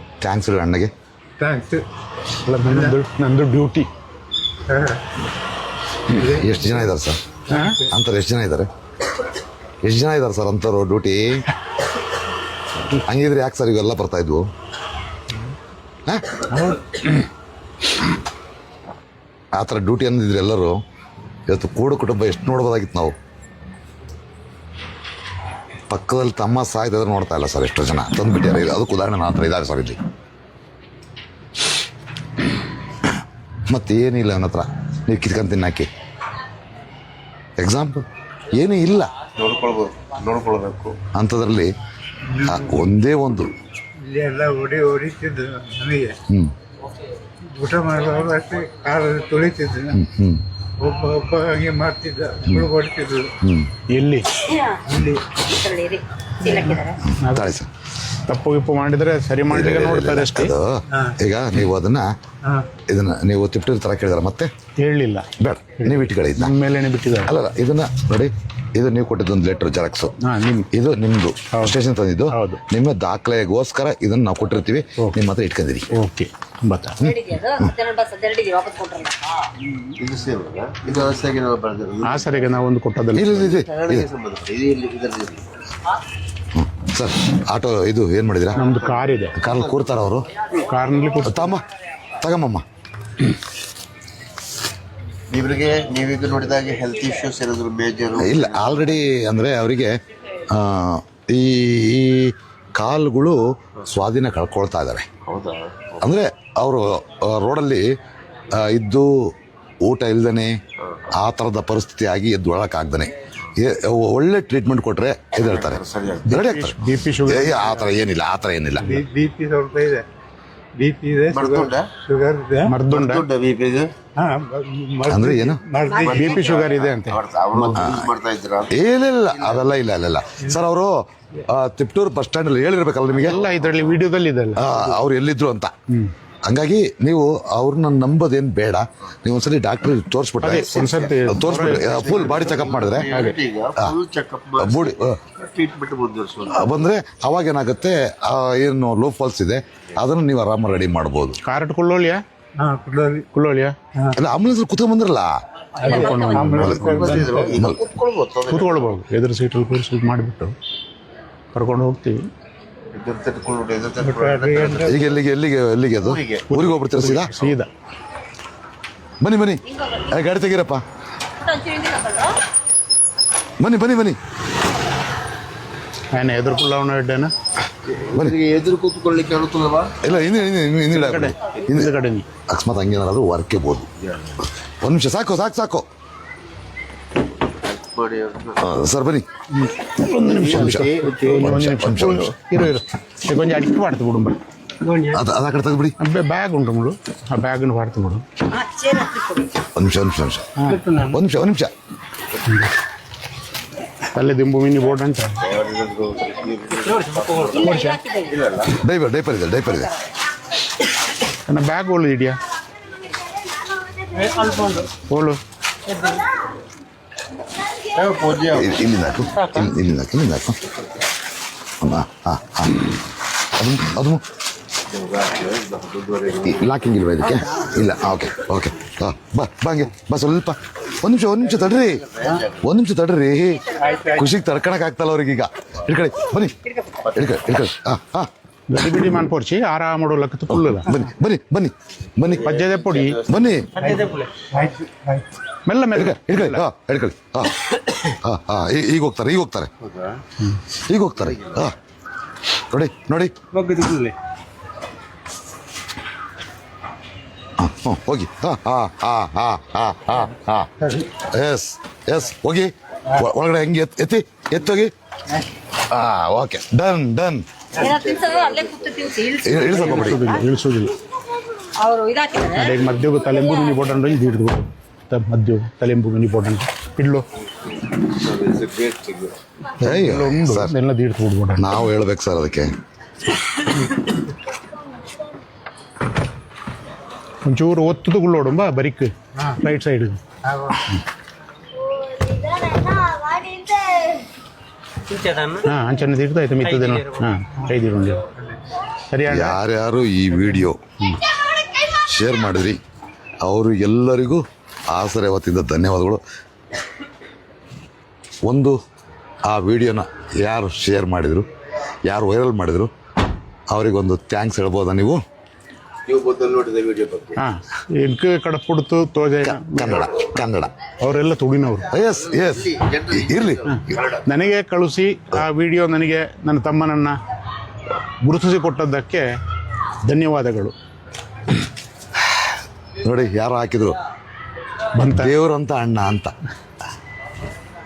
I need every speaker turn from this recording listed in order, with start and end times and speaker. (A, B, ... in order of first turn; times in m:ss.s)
0:00.2-0:00.9 A
0:01.4-0:01.8 B
0:02.4-0:03.9 C
0:02.6-0:03.0 B
0:04.7-0:05.0 B
0:06.1-0:06.9 B
0:06.2-0:07.2 A
0:07.5-0:07.9 B
0:07.5-0:07.8 C
0:07.9-0:08.7 A
0:09.8-0:11.4 A
0:12.9-0:14.5 A
0:16.0-0:16.5 A
0:19.5-0:20.8 A
0:21.5-0:23.2 A
0:25.9-0:30.0 A
0:33.7-0:35.9 A
0:37.6-0:39.1 A
0:39.4-0:41.0 D
0:41.1-0:41.7 A
0:42.2-0:42.9 B
0:42.4-0:43.5 A
0:44.0-0:46.2 B
0:47.5-0:50.0 B
0:49.9-0:50.4 A
0:50.8-0:53.3 B
0:53.4-0:53.7 A
0:53.9-0:54.3 C
0:54.5-0:54.8 E
0:54.9-0:55.4 B
0:55.4-0:57.0 E
0:57.2-0:57.6 C
0:57.3-0:57.7 A
0:58.2-1:00.5 C
0:59.5-1:02.1 A
1:02.9-1:04.5 A
1:04.8-1:05.3 C
1:05.4-1:06.6 A
1:05.8-1:07.3 C
1:07.2-1:10.1 A
1:10.2-1:10.7 C
1:10.7-1:15.9 A
1:12.3-1:12.6 C
1:15.9-1:17.0 C
1:17.0-1:17.7 A
1:17.0-1:19.2 E
1:19.6-1:19.9 B
1:20.0-1:22.4 D
1:22.0-1:23.4 C
1:23.1-1:24.1 A
1:23.4-1:25.4 D
1:26.5-1:28.6 A
1:28.5-1:29.4 C
1:29.4-1:30.3 A
1:30.6-1:31.5 C
1:31.2-1:31.6 A
1:32.2-1:32.6 A
1:35.3-1:38.8 D
1:38.1-1:39.9 A
1:40.5-1:45.1 A
1:45.2-1:46.0 D
1:46.0-1:47.9 A
1:48.6-1:49.3 A
1:49.8-1:50.5 A
1:51.1-1:58.9 A
1:55.4-1:56.3 D
1:56.3-1:58.0 C
1:58.8-2:00.0 B
2:00.8-2:02.8 B
2:01.3-2:01.9 D
2:02.7-2:03.2 C
2:02.9-2:03.9 D
2:04.2-2:06.7 B
2:05.1-2:05.6 A
2:05.8-2:06.5 E
2:06.0-2:08.8 D
2:06.1-2:07.8 C
2:07.7-2:08.1 A
2:08.7-2:13.4 A
2:09.3-2:09.6 D
2:13.2-2:14.7 C
2:14.6-2:15.7 A
2:16.5-2:23.2 A
2:20.4-2:22.5 C
2:20.5-2:26.7 D
2:23.1-2:23.4 C
2:24.6-2:25.2 A
2:26.5-2:31.4 A
2:31.4-2:32.2 C
2:32.6-2:33.3 B
2:33.3-2:33.8 C
2:34.1-2:35.3 A
2:35.8-2:37.6 B
2:35.8-2:37.6 C
2:35.8-2:36.4 E
2:36.4-2:37.8 A
2:36.6-2:39.0 D
2:38.5-2:40.5 C
2:41.5-2:42.3 C
2:42.9-2:45.1 D
2:44.0-2:45.1 B
2:44.8-2:47.4 A
2:46.0-2:46.5 D
2:46.5-2:47.7 C
2:49.2-2:50.8 A
2:51.4-2:52.4 E
2:53.6-2:54.2 A
2:56.1-2:57.3 C
2:57.9-3:00.0 D
3:00.0-3:01.9 A
3:00.9-3:02.2 C
3:02.5-3:03.9 A
3:04.0-3:04.4 D
3:04.8-3:05.8 A
3:07.6-3:08.6 D
3:08.6-3:09.3 A
3:09.6-3:14.4 C
3:10.1-3:12.5 A
3:10.4-3:11.4 D
3:15.1-3:15.9 A
3:16.0-3:18.2 C
3:18.5-3:19.5 E
3:19.7-3:21.7 A
3:20.6-3:20.8 C
3:22.4-3:22.7 C
3:24.1-3:25.4 C
3:25.4-3:28.7 D
3:27.4-3:28.4 E
3:27.6-3:28.0 C
3:28.6-3:29.9 A
3:31.4-3:32.4 C
3:34.2-3:34.8 D
3:35.0-3:35.4 C
3:37.9-3:38.7 D
3:38.5-3:40.6 A
3:41.8-3:42.9 A
3:43.5-3:44.2 A
3:44.9-3:46.6 D
3:46.3-3:52.1 A
3:51.5-3:52.6 D
3:52.6-3:56.6 A
3:53.7-3:54.3 B
3:57.0-3:57.3 D
3:57.1-3:58.3 A
3:58.7-4:00.9 C
4:00.5-4:02.6 A
4:02.3-4:03.2 C
4:02.4-4:03.6 D
4:03.2-4:03.7 A
4:03.8-4:05.3 B
4:05.6-4:06.6 C
4:05.9-4:09.7 A
4:09.8-4:10.2 D
4:10.8-4:11.7 A
4:12.7-4:13.3 A
4:13.6-4:14.1 D
4:17.6-4:24.9 A
4:25.9-4:27.4 A
4:27.8-4:30.4 E
4:27.8-4:29.1 D
4:29.4-4:30.2 A
4:29.6-4:30.9 C
4:31.8-4:32.7 E
4:32.5-4:37.2 C
4:38.0-4:39.3 D
4:39.8-4:41.8 C
4:39.8-4:40.7 A
4:41.6-4:42.7 A
4:47.4-4:50.2 C
4:50.4-4:50.8 B
4:52.3-4:54.2 D
4:55.1-4:55.5 E
4:55.5-4:58.2 C
4:59.1-4:59.6 C
4:59.2-5:00.8 A
5:01.8-5:02.8 A
5:03.4-5:06.2 A
5:08.4-5:08.8 A
5:09.5-5:11.5 A
5:12.1-5:12.9 A
5:13.7-5:15.2 A
5:16.1-5:17.4 D
5:17.4-5:20.4 C
5:19.4-5:20.7 A
5:21.0-5:21.9 C
5:21.9-5:23.7 A
5:22.2-5:24.2 D
5:23.7-5:27.2 C
5:28.2-5:29.3 C
5:30.0-5:30.7 C
5:33.0-5:34.0 A
5:35.0-5:35.3 C
5:35.1-5:36.3 A